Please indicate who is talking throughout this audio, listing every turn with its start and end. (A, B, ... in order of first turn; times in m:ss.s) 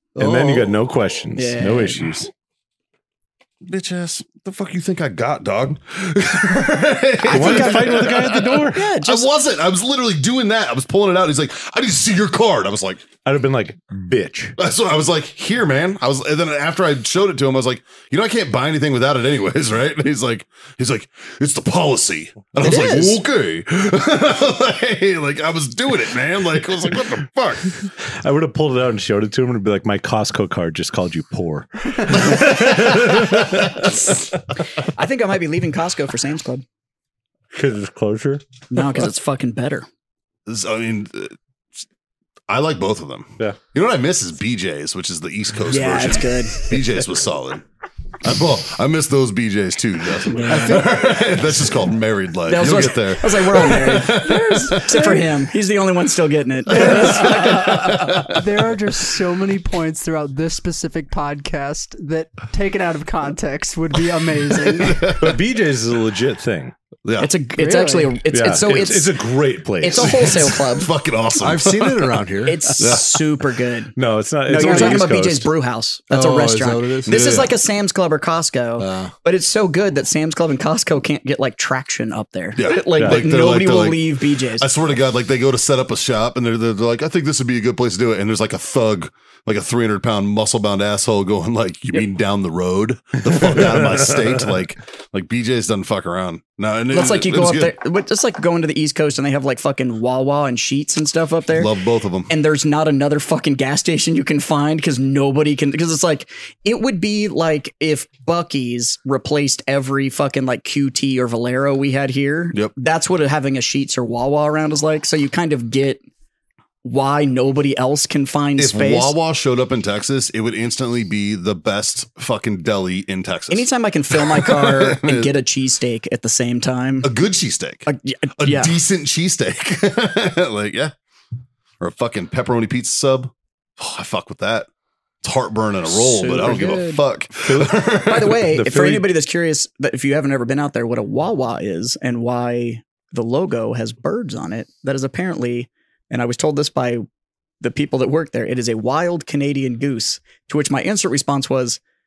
0:00.2-0:00.8 A
0:00.2-0:02.3 B
0:01.4-0:02.2 C
0:03.6-0:13.1 D
0:07.2-0:08.1 C
0:07.3-0:08.9 B
0:08.7-0:09.3 C
0:13.2-0:14.6 B
0:14.6-0:27.8 D
0:22.6-0:23.2 C
0:28.1-0:34.2 B
0:32.1-0:33.9 D
0:33.9-0:34.2 C
0:34.8-0:36.6 C
0:37.5-0:38.4 B
0:38.7-0:39.9 C
0:40.5-0:41.4 D
0:42.5-0:47.6 D
0:45.7-0:46.7 C
0:48.2-0:55.0 D
0:50.3-0:50.9 C
0:50.5-0:51.2 A
0:52.5-0:57.8 C
0:54.1-0:55.2 E
0:56.7-0:58.4 D
0:56.7-1:05.2 E
1:04.9-1:05.3 D
1:05.2-1:06.7 B
1:07.0-1:07.3 D
1:07.2-1:09.2 C
1:07.6-1:08.2 E
1:08.3-1:10.5 B
1:09.8-1:10.9 C
1:10.0-1:12.2 D
1:11.4-1:12.6 A
1:12.4-1:14.0 C
1:12.8-1:13.1 D
1:14.0-1:15.5 B
1:14.5-1:24.7 C
1:16.1-1:17.4 A
1:17.1-1:17.5 D
1:18.8-1:19.1 A
1:22.6-1:37.7 D
1:23.0-1:23.2 B
1:33.5-1:34.3 B
1:36.9-1:41.7 C
1:41.5-1:42.3 D
1:42.3-1:56.0 C
1:56.8-1:59.2 C
1:58.6-2:05.3 D
2:03.5-2:07.1 C
2:07.0-2:07.9 D
2:07.9-2:08.8 C
2:08.4-2:10.9 D
2:11.8-2:14.7 D
2:15.2-2:18.4 D
2:15.9-2:17.0 C
2:17.4-2:19.1 B
2:18.0-2:27.0 C
2:27.6-2:31.8 C